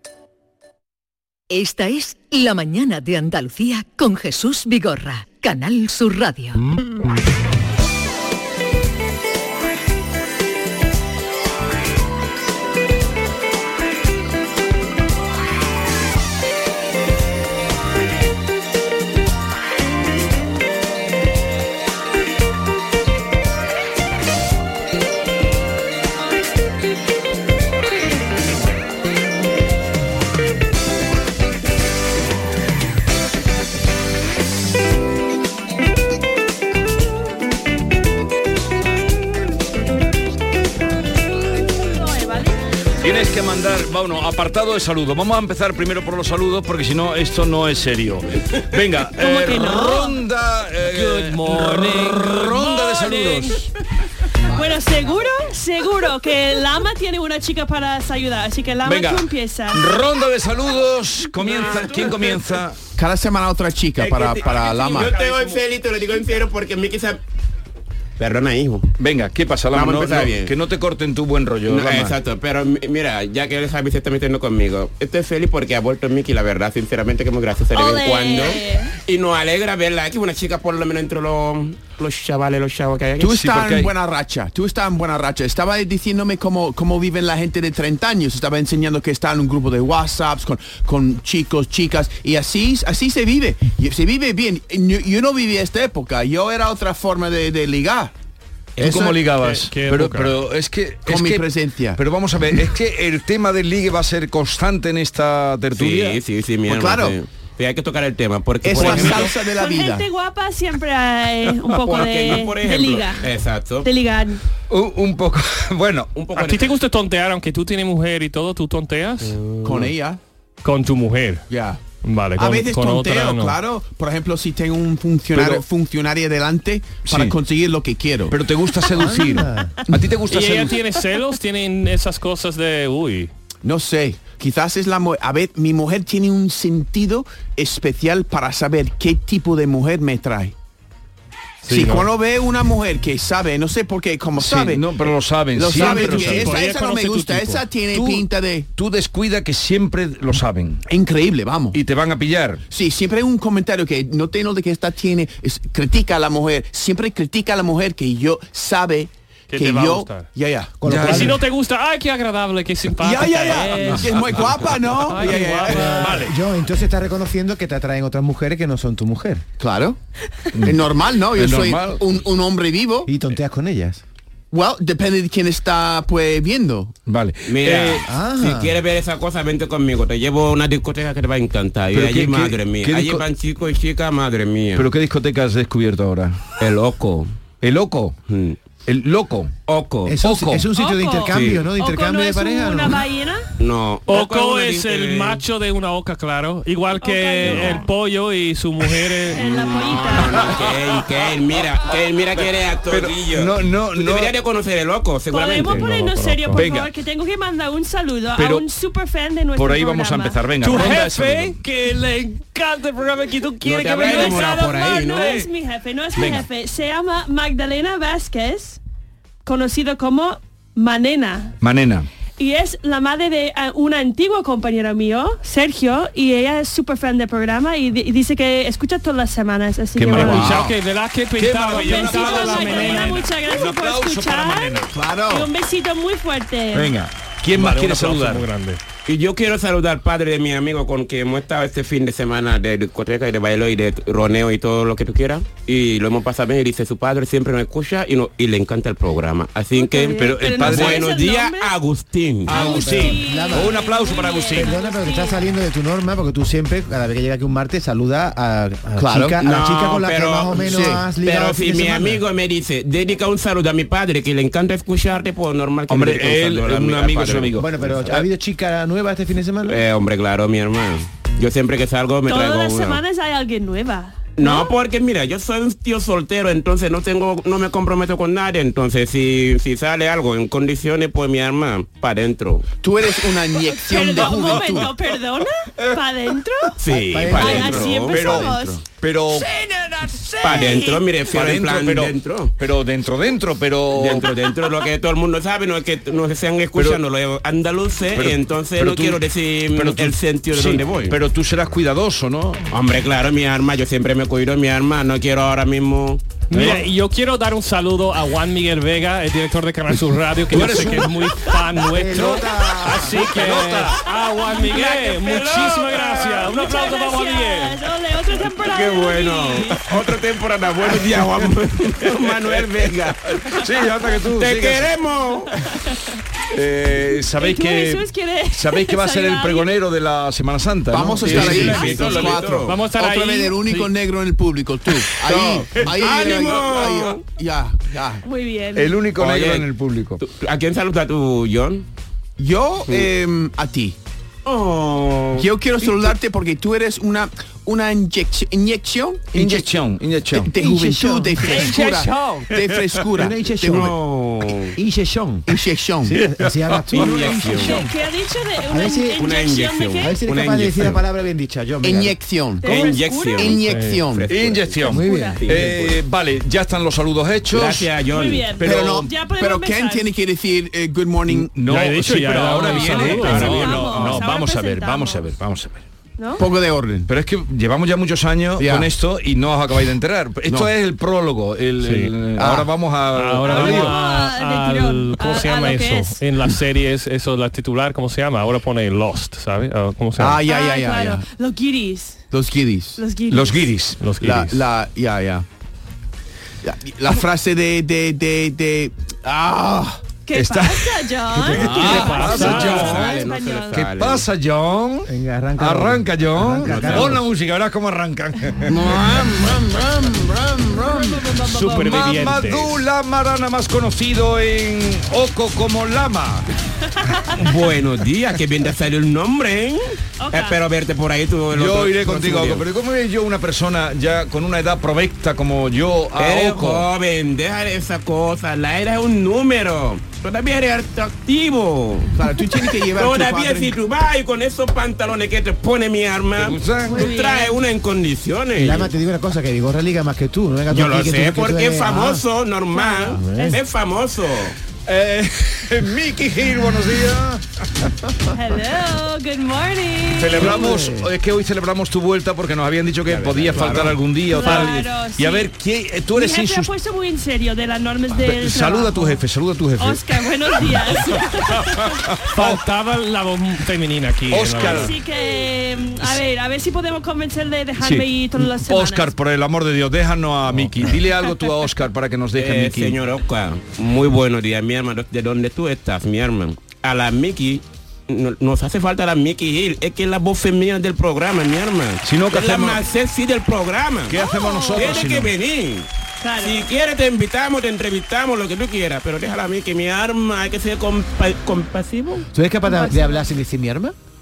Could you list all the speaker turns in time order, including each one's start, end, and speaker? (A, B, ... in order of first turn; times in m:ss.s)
0:01.5-0:06.6 A
0:41.8-0:42.6 B
0:43.0-0:53.7 C
0:49.1-0:50.2 B
0:50.8-0:52.7 D
0:52.7-0:53.6 B
0:54.5-0:59.9 B
0:58.8-1:02.8 C
1:01.5-1:02.2 B
1:01.6-1:02.0 E
1:03.0-1:05.1 F
1:04.0-1:07.2 E
1:08.2-1:08.9 E
1:09.0-1:12.2 C
1:09.7-1:10.6 E
1:11.7-1:23.4 E
1:17.7-1:19.0 B
1:23.2-1:38.1 F
1:23.3-1:23.9 C
1:38.8-1:39.2 F
1:38.8-1:46.2 C
1:39.4-1:40.4 D
1:41.1-1:42.0 F
1:45.8-1:49.3 E
1:46.7-1:47.2 F
1:48.6-1:50.1 F
1:48.7-1:49.3 C
1:49.5-1:53.3 B
1:51.8-1:53.9 E
1:53.8-1:54.4 B
1:54.7-1:56.1 C
1:56.2-1:56.7 E
1:56.4-1:59.4 D
1:59.6-2:00.2 F
2:00.6-2:01.5 D
2:01.5-2:01.8 F
2:02.0-2:03.6 D
2:02.4-2:08.4 F
2:05.3-2:05.7 C
2:07.1-2:07.4 C
2:08.3-2:10.8 C
2:08.9-2:09.8 G
2:10.3-2:13.3 D
2:13.6-2:20.5 F
2:21.6-2:22.1 D
2:21.7-2:24.9 F
2:24.4-2:26.6 C
2:25.6-2:28.7 F
2:25.6-2:27.6 D
2:27.9-2:30.8 C
2:30.9-2:31.8 F
2:31.7-2:32.6 C
2:32.7-2:40.8 F
2:39.5-2:40.3 D
2:40.8-2:41.4 G
2:40.9-2:41.3 C
2:41.0-2:46.3 D
2:43.0-2:46.2 F
2:45.7-2:49.4 G
2:49.6-2:50.0 F
2:50.5-2:52.2 C
2:50.6-2:53.1 F
2:53.1-2:54.0 G
2:54.5-2:57.0 F
2:57.1-2:58.0 C
2:57.5-3:04.9 E
2:58.1-2:58.8 G
3:01.9-3:03.2 C
3:04.8-3:06.4 C
3:06.6-3:07.3 E
3:07.6-3:08.2 C
3:08.3-3:08.6 E
3:08.9-3:10.7 C
3:09.7-3:10.1 E
3:10.1-3:13.0 G
3:10.7-3:13.4 B
3:11.3-3:11.7 E
3:13.6-3:15.4 E
3:14.1-3:19.4 D
3:17.0-3:17.9 B
3:19.3-3:25.9 E
3:19.3-3:20.4 B
3:22.9-3:24.3 C
3:25.3-3:30.4 B
3:25.7-3:26.6 D
3:26.5-3:26.9 C
3:28.4-3:28.7 C
3:29.6-3:31.6 C
3:30.6-3:34.7 D
3:33.6-3:35.5 E
3:33.9-3:38.8 B
3:36.2-3:36.5 C
3:39.4-3:41.6 B
3:41.6-3:42.1 C
3:42.4-3:50.6 B
3:50.0-3:50.7 C
3:50.1-3:53.3 D
3:51.4-3:55.0 C
3:51.7-3:57.0 B
3:54.9-3:55.5 F
3:56.7-3:58.5 C
3:57.5-3:58.8 D
3:59.1-4:12.5 E
4:09.7-4:11.7 B
4:10.2-4:11.2 C
4:12.5-4:15.4 B
4:12.5-4:14.8 C
4:12.5-4:13.8 G
4:14.6-4:22.2 G
4:19.0-4:19.4 F
4:19.4-4:27.6 E
4:20.6-4:21.1 F
4:25.9-4:28.3 C
4:27.6-4:29.8 G
4:29.7-4:33.0 E
4:32.3-4:34.7 B
4:34.4-4:42.7 E
4:42.8-4:44.9 F
4:43.7-4:48.8 B
4:46.8-4:48.6 E
4:46.9-4:47.9 G
4:48.1-4:50.7 C
4:50.4-4:52.5 E
4:50.5-4:51.0 B
4:51.3-4:54.3 C
4:53.9-5:01.2 E
4:56.8-4:57.0 C
4:58.1-4:59.2 C
4:59.7-5:02.6 C
5:02.7-5:06.4 E
5:06.5-5:17.8 D
5:06.5-5:06.9 C
5:10.5-5:11.4 C
5:11.9-5:13.2 G
5:13.1-5:14.0 C
5:14.6-5:15.4 B
5:16.3-5:19.9 B
5:18.6-5:23.4 E
5:23.3-5:24.9 C
5:24.3-5:25.6 E
5:25.7-5:26.0 B
5:26.5-5:32.5 C
5:27.3-5:29.8 B
5:30.9-5:38.2 F
5:31.2-5:32.8 E
5:31.5-5:32.4 B
5:32.6-5:33.9 D
5:35.2-5:37.2 E
5:38.2-5:39.0 B
5:38.8-5:40.2 C
5:39.2-5:39.7 E
5:40.2-5:41.8 E
5:42.4-5:44.0 F
5:44.4-5:45.5 E
5:45.4-5:49.7 F
5:49.3-5:50.5 C
5:50.4-5:54.0 F
5:50.6-5:51.4 G
5:51.4-5:52.6 D
5:53.1-5:53.9 G
5:53.6-5:54.8 E
5:54.8-5:55.5 G
5:55.5-5:56.3 F
5:56.0-5:57.9 G
5:56.9-5:57.6 C
5:56.9-5:57.9 E
5:57.3-6:00.2 B
5:58.7-5:59.3 G
5:59.2-6:01.0 E
6:00.0-6:02.2 G
6:01.8-6:04.3 F
6:02.6-6:03.8 B
6:02.6-6:06.0 E
6:03.7-6:04.0 D
6:04.3-6:08.0 C
6:04.9-6:05.4 G
6:05.0-6:05.4 B
6:07.5-6:08.6 E
6:08.1-6:10.1 B
6:08.6-6:09.1 C
6:08.6-6:11.5 F
6:11.3-6:15.8 C
6:11.6-6:14.2 D
6:12.6-6:15.3 B
6:16.2-6:16.5 B
6:16.4-6:17.1 F
6:17.1-6:24.0 C
6:18.6-6:18.9 F
6:20.5-6:20.7 F
6:21.8-6:22.1 D
6:22.4-6:22.7 F
6:23.1-6:30.4 D
6:23.4-6:26.2 B
6:30.2-6:31.2 F
6:30.4-6:32.2 B
6:32.3-6:33.0 F
6:33.0-6:33.7 B
6:33.3-6:34.0 C
6:34.0-6:34.6 D
6:34.2-6:35.5 F
6:36.6-6:40.0 F
6:40.3-6:43.9 B
6:40.3-6:42.9 C
6:41.8-6:44.3 E
6:41.8-6:43.1 D
6:43.7-6:49.3 C
6:45.1-6:47.2 G
6:46.6-6:47.2 E
6:48.7-6:49.7 E
6:49.4-6:51.2 F
6:50.8-6:52.5 B
6:51.4-6:56.5 C
6:51.5-6:52.8 D
6:57.4-7:02.6 E
7:00.2-7:00.6 B
7:01.5-7:06.9 C
7:06.2-7:12.2 E
7:12.2-7:13.8 F
7:12.7-7:18.9 E
7:16.4-7:17.0 C
7:16.8-7:17.6 B
7:18.6-7:22.2 G
7:20.7-7:24.6 E
7:22.7-7:23.6 B
7:23.1-7:23.6 G
7:24.9-7:27.4 C
7:28.3-7:30.6 B
7:30.1-7:36.7 C
7:30.4-7:31.1 G
7:33.1-7:33.9 E
7:33.6-7:34.0 F
7:34.2-7:35.5 B
7:34.4-7:34.8 D
7:36.1-7:39.2 B
7:38.2-7:42.6 C
7:39.8-7:42.0 B
7:42.3-7:44.9 D
7:44.3-7:45.0 C
7:44.6-7:49.1 B
7:47.8-7:53.0 C
7:52.4-8:04.2 E
8:02.0-8:02.8 C
8:04.1-8:05.3 C
8:04.1-8:05.2 B
8:04.8-8:12.3 E
8:06.2-8:06.7 B
8:12.3-8:14.0 G
8:12.6-8:13.2 B